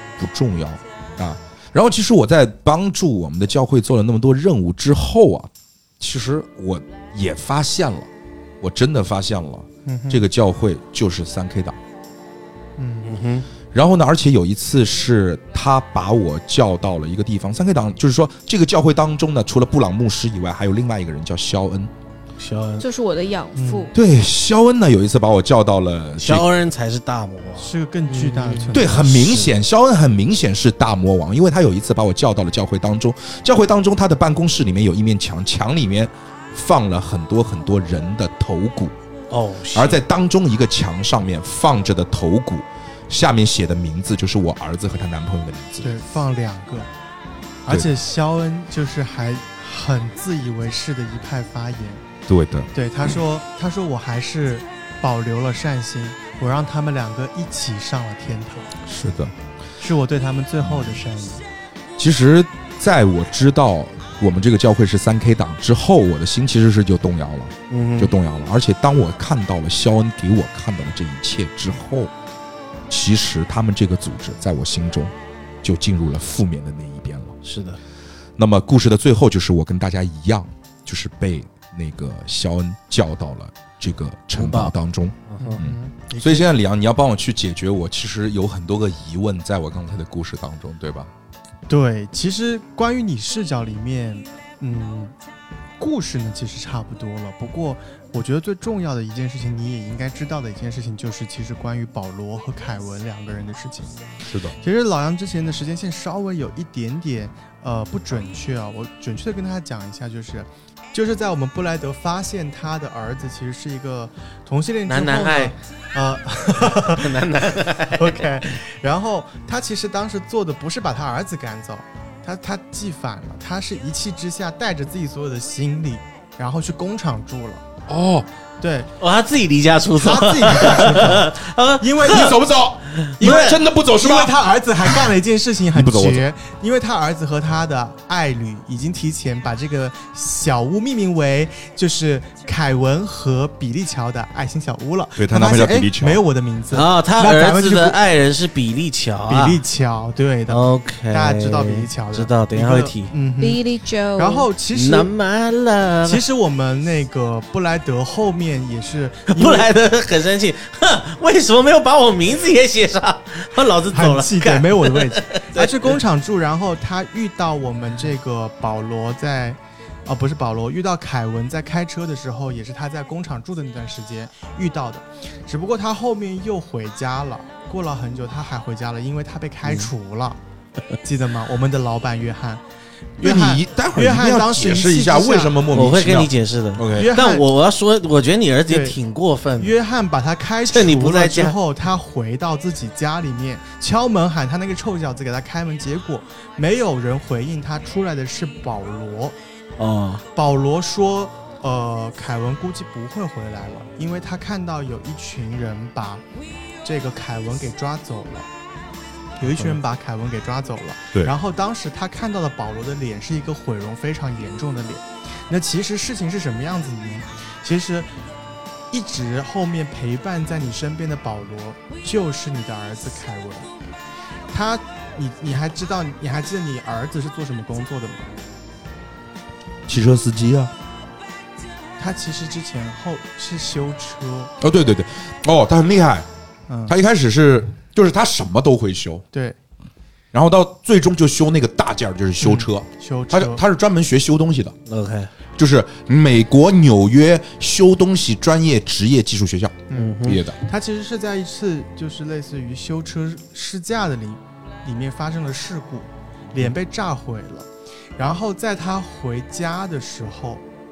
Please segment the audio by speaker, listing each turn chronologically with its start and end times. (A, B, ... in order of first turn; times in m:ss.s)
0:00.2-0:08.1 A
0:08.6-0:11.8 A
0:09.8-0:10.2 B
0:12.8-0:13.2 B
0:13.0-0:13.5 C
0:13.7-0:21.9 A
0:22.4-0:22.9 C
0:22.8-0:23.9 D
0:23.6-0:23.9 B
0:23.9-0:26.5 A
0:26.2-0:29.4 C
0:27.6-0:29.5 B
0:28.7-0:39.0 A
0:39.3-0:40.0 C
0:39.7-0:45.9 A
0:45.8-0:46.9 B
0:47.6-0:52.0 B
0:52.3-0:52.7 A
0:52.7-0:58.7 B
0:58.9-0:59.3 A
0:59.8-1:01.4 B
1:00.6-1:01.0 A
1:02.0-1:12.1 A
1:07.7-1:08.1 C
1:12.9-1:17.4 A
1:17.4-1:17.8 C
1:18.4-1:31.1 A
1:24.3-1:24.7 C
1:25.3-1:25.6 C
1:25.4-1:26.5 B
1:31.7-1:35.1 B
1:35.8-1:44.0 B
1:44.2-1:44.6 A
1:44.6-2:07.7 B
1:54.9-1:55.6 C
1:56.9-1:58.5 C
2:07.9-2:08.3 A
2:08.6-2:08.9 B
2:09.0-2:13.6 C
2:10.0-2:12.5 B
2:10.5-2:11.0 A
2:12.1-2:14.4 A
2:13.2-2:28.0 B
2:15.7-2:16.3 A
2:25.2-2:26.2 A
2:26.7-2:29.6 C
2:29.3-2:33.6 B
2:30.5-2:33.1 C
2:33.4-2:34.5 D
2:34.2-2:35.1 B
2:34.7-2:36.2 C
2:36.0-2:39.7 B
2:39.3-2:46.0 C
2:43.9-3:00.4 B
3:01.0-3:02.6 B
3:03.2-3:05.6 B
3:03.2-3:07.2 A
3:05.7-3:09.7 C
3:06.9-3:07.5 B
3:08.7-3:09.0 B
3:09.6-3:19.4 B
3:10.7-3:11.6 C
3:19.8-3:20.2 C
3:20.3-3:26.2 B
3:26.8-3:28.5 B
3:29.4-3:38.1 B
3:29.4-3:29.8 C
3:38.9-3:43.7 B
3:44.5-3:48.3 B
3:49.9-3:50.7 A
3:52.0-3:54.5 B
3:54.6-3:56.3 A
3:56.7-3:57.0 B
3:56.9-3:59.2 A
3:59.3-3:59.6 B
4:00.3-4:04.7 A
4:02.4-4:03.6 B
4:04.9-4:05.3 C
4:05.6-4:10.6 A
4:09.9-4:20.6 B
4:09.9-4:10.4 C